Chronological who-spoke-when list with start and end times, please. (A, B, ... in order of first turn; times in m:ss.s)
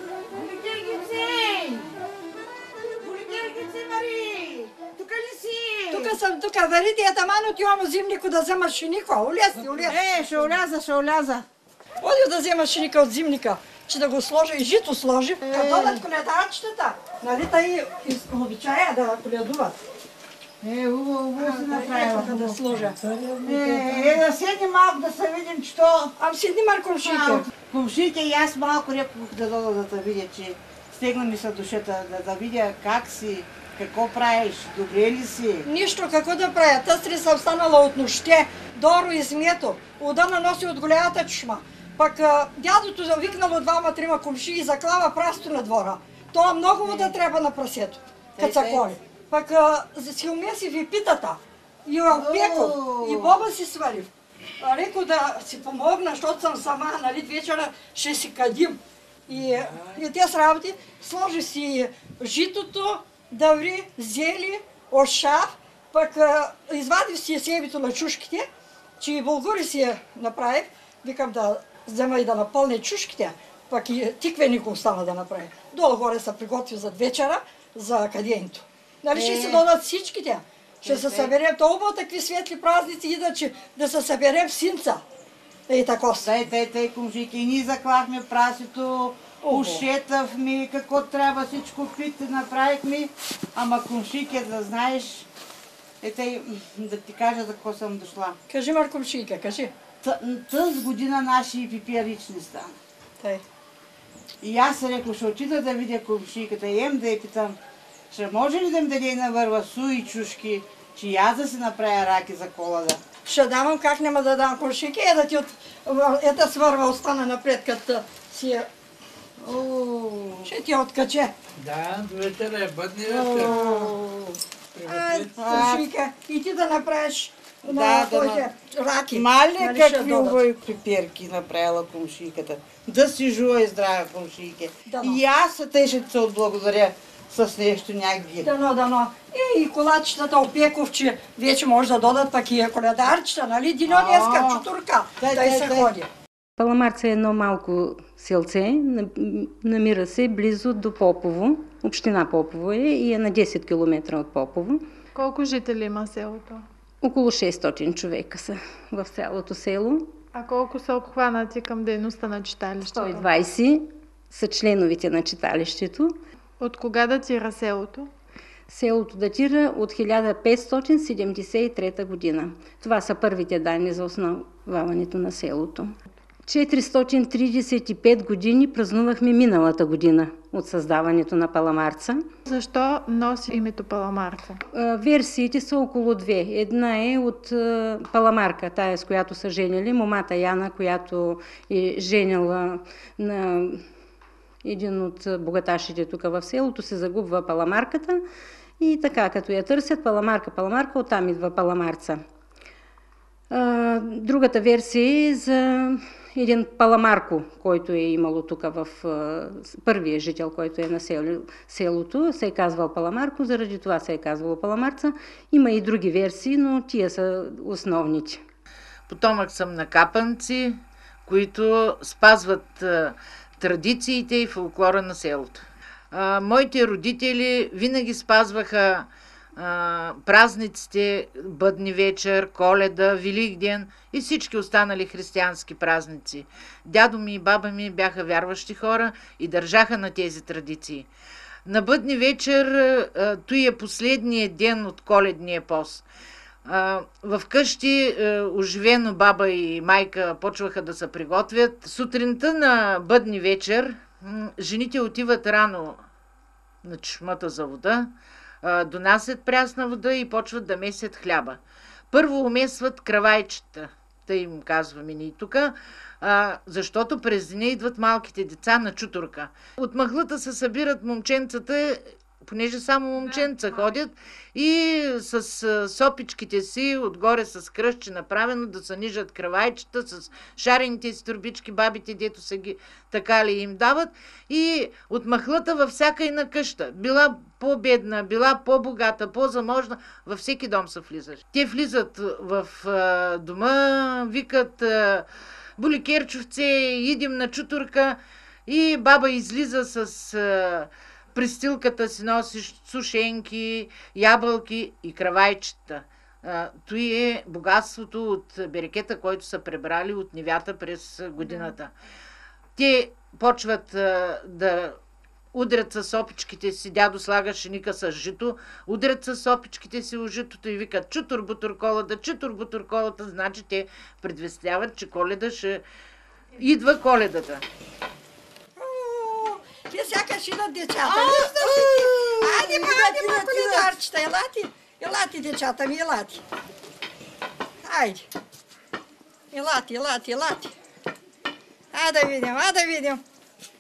0:00.3-0:01.9 A
0:03.0-0:06.2 A
0:05.9-0:10.0 B
0:09.7-0:11.4 A
0:12.0-0:19.8 B
0:15.4-0:16.0 A
0:20.6-0:22.6 A
0:21.4-0:23.0 B
0:22.8-0:24.2 C
0:23.4-0:26.1 A
0:26.2-0:27.5 B
0:27.0-0:35.7 A
0:35.6-0:54.1 B
0:46.8-0:47.2 A
0:48.4-0:48.9 A
0:52.1-0:53.4 A
0:54.6-1:08.5 B
0:59.4-1:00.0 C
1:09.0-1:25.0 B
1:19.1-1:19.7 A
1:20.8-1:21.3 A
1:25.7-1:26.3 B
1:26.2-1:35.3 A
1:29.4-1:29.9 B
1:36.0-1:38.4 A
1:38.5-1:39.7 B
1:40.0-1:42.8 A
1:44.4-1:47.6 A
1:48.1-1:53.0 A
1:53.3-1:58.7 B
1:59.4-2:00.5 A
2:00.4-2:01.3 B
2:01.6-2:03.9 C
2:03.0-2:04.4 A
2:03.6-2:03.9 B
2:04.7-2:05.3 C
2:04.8-2:10.4 B
2:05.4-2:05.9 A
2:07.6-2:08.5 A
2:09.1-2:18.5 A
2:14.9-2:15.2 B
2:18.4-2:26.1 B
2:23.9-2:24.7 A
2:25.2-2:25.9 A
2:26.6-2:34.8 D
2:35.1-2:36.6 E
2:37.0-2:40.1 D
2:40.3-2:43.3 E
2:42.8-2:46.2 D
2:46.6-2:48.1 E
2:48.7-2:56.0 D
2:56.5-3:02.3 D
3:02.5-3:04.6 E
3:04.7-3:13.8 D
3:14.6-3:18.2 D
3:18.8-3:22.2 D
3:23.5-3:38.4 D
3:39.1-4:01.1 F
4:01.7-4:06.0 F
4:06.6-4:16.0 F
4:16.8-4:18.1 F
4:18.6-4:21.6 F
4:22.1-4:55.3 F
4:33.2-4:33.8 E
4:55.8-5:11.9 F
5:11.4-5:11.7 E
5:12.8-5:15.0 F
5:15.5-5:25.8 F
5:26.6-5:27.6 F
5:28.8-5:36.4 B
5:31.0-5:34.0 A
5:37.8-5:38.3 B
5:39.5-5:40.7 B
5:41.9-5:43.2 B